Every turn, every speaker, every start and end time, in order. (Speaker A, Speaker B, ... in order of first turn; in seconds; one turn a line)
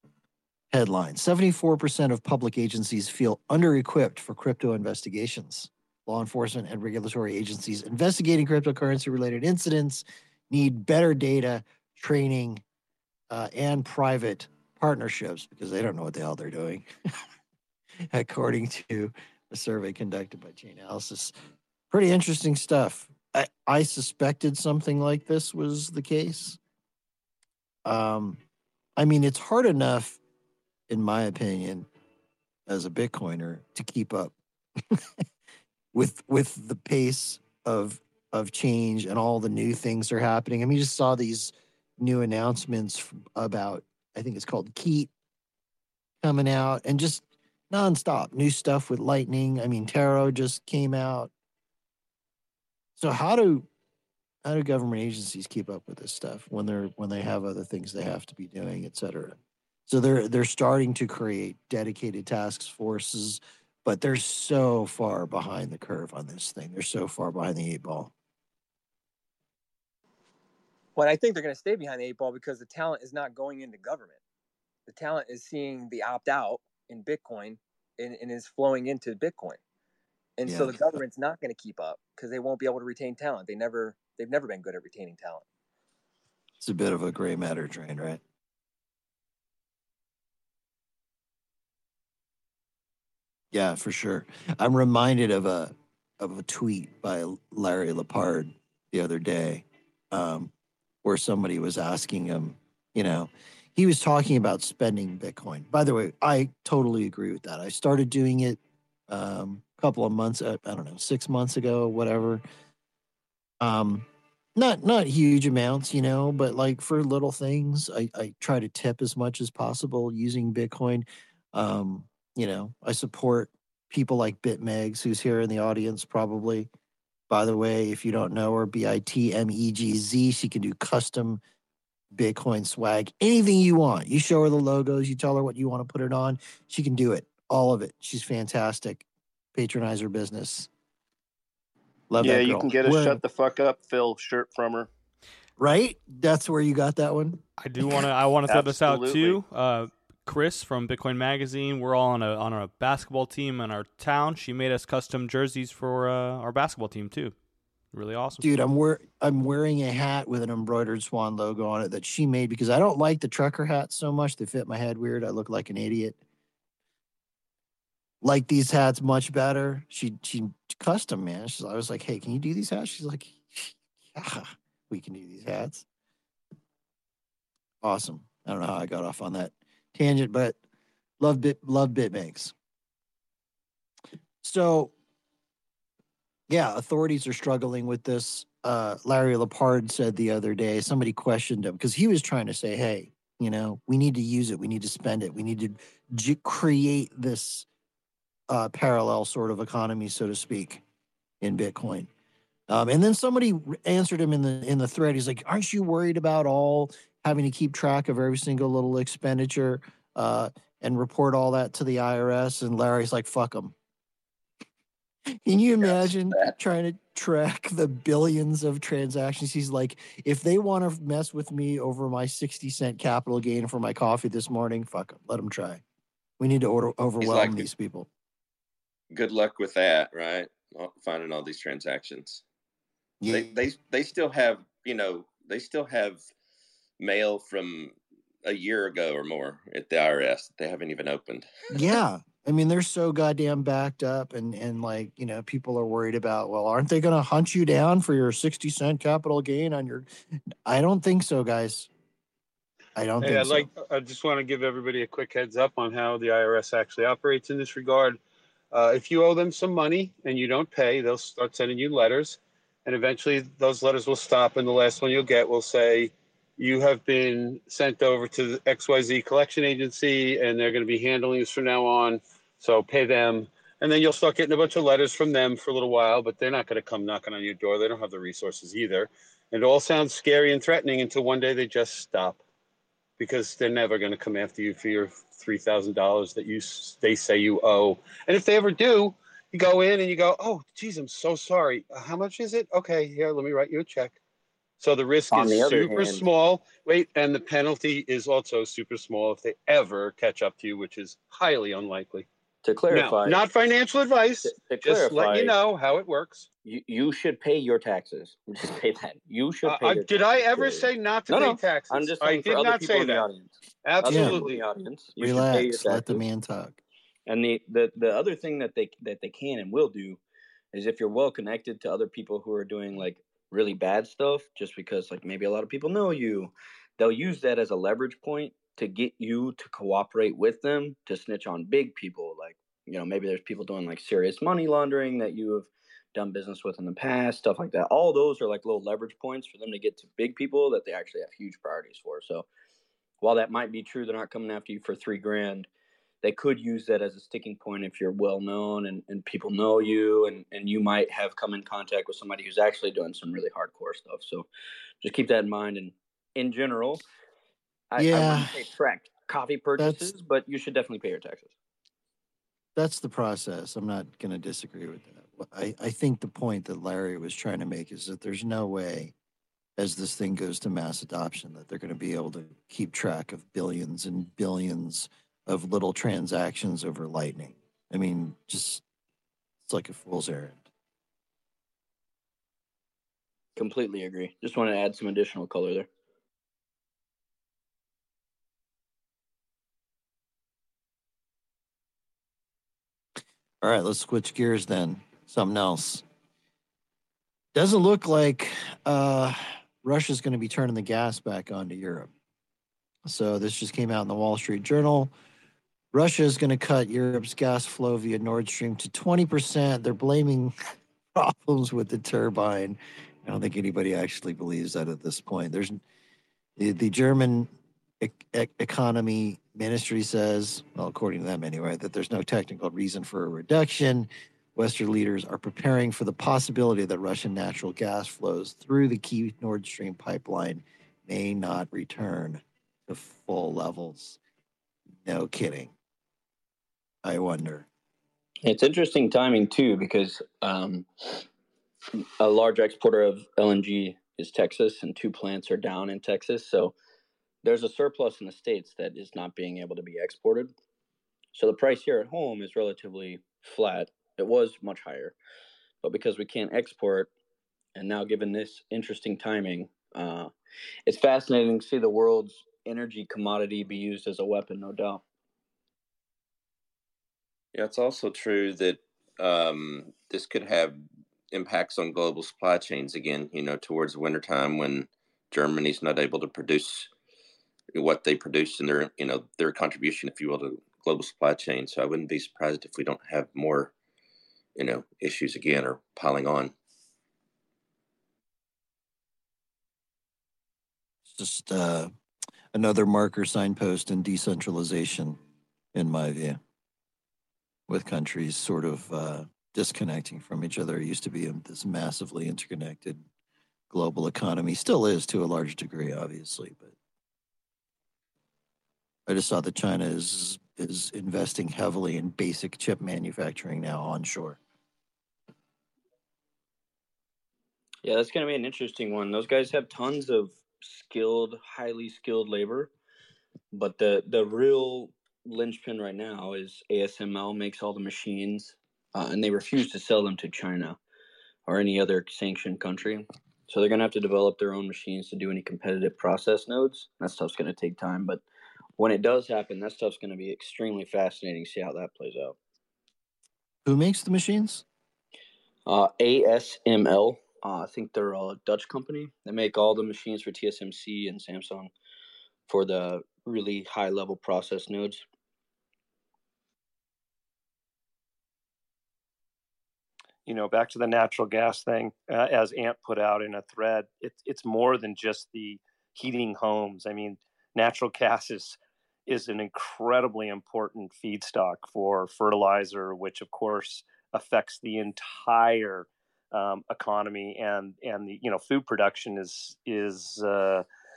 Speaker A: 0.7-12.6
Speaker A: 13.3-16.9
Speaker A: 18.1-21.3
Speaker A: 21.9-26.6
Speaker A: 27.8-28.4
Speaker A: 29.0-30.2
Speaker A: 30.9-31.9
Speaker A: 32.7-34.3
Speaker A: 35.9-45.1
Speaker A: 46.2-51.3
Speaker A: 53.0-53.6
Speaker A: 54.4-68.1
Speaker B: 71.0-74.2
Speaker B: 74.9-79.6
Speaker B: 80.4-85.4
Speaker A: 80.5-81.0
Speaker A: 86.6-88.2
Speaker A: 93.5-100.5
Speaker A: 101.0-112.4
Speaker A: 113.6-126.7
Speaker A: 127.3-131.4
Speaker A: 132.1-140.7
Speaker A: 142.1-143.2
Speaker C: 142.2-144.9
Speaker A: 145.6-147.4
Speaker D: 147.6-158.5
Speaker C: 148.4-149.4
Speaker A: 158.4-166.2
Speaker A: 168.2-175.8
Speaker A: 177.8-180.6
Speaker A: 181.2-182.5
Speaker A: 184.4-184.9
Speaker A: 186.5-197.7
Speaker A: 198.5-200.8
Speaker A: 201.4-202.1
Speaker A: 202.7-213.7
Speaker A: 215.4-225.8
Speaker A: 226.4-228.1
Speaker E: 227.2-227.7
Speaker E: 229.1-232.4
Speaker A: 233.2-233.6
Speaker E: 233.3-236.2
Speaker E: 237.0-241.5
Speaker A: 241.7-250.1
Speaker A: 250.6-251.9
Speaker A: 252.9-253.7
Speaker F: 253.2-258.2
Speaker F: 258.7-282.4
Speaker F: 283.2-294.1
Speaker F: 294.8-302.2
Speaker G: 295.3-296.2
Speaker G: 302.6-303.4
Speaker F: 302.9-306.4
Speaker G: 304.4-305.5
Speaker G: 306.6-316.2
Speaker F: 309.6-313.3
Speaker F: 313.8-314.6
Speaker A: 314.0-314.5
Speaker A: 315.1-316.8
Speaker G: 317.3-320.2
Speaker G: 320.7-342.4
Speaker G: 343.2-345.7
Speaker G: 346.2-354.4
Speaker G: 355.0-357.0
Speaker G: 357.9-361.5
Speaker A: 358.0-358.6
Speaker A: 359.8-360.1
Speaker A: 362.8-369.1
Speaker A: 369.8-378.8
Speaker A: 379.6-380.6
Speaker G: 383.6-385.9
Speaker A: 393.6-396.0
Speaker A: 397.5-402.1
Speaker A: 403.1-405.1
Speaker A: 405.9-410.5
Speaker A: 411.1-415.8
Speaker A: 416.6-417.5
Speaker A: 418.0-434.2
Speaker A: 435.0-435.7
Speaker A: 437.0-437.6
Speaker G: 438.4-441.2
Speaker G: 442.2-446.7
Speaker G: 447.4-450.5
Speaker G: 451.3-455.1
Speaker G: 455.8-457.1
Speaker G: 457.8-460.3
Speaker G: 460.9-465.0
Speaker E: 467.5-476.9
Speaker E: 477.7-483.7
Speaker E: 484.6-486.5
Speaker A: 491.1-491.9
Speaker A: 492.5-495.2
Speaker A: 495.7-496.4
Speaker A: 497.7-503.0
Speaker A: 503.7-506.7
Speaker A: 509.1-514.4
Speaker G: 517.8-522.7
Speaker G: 523.5-530.8
Speaker G: 531.5-538.2
Speaker G: 538.8-542.4
Speaker A: 543.6-544.6
Speaker G: 545.6-551.7
Speaker G: 552.5-555.0
Speaker C: 560.2-580.6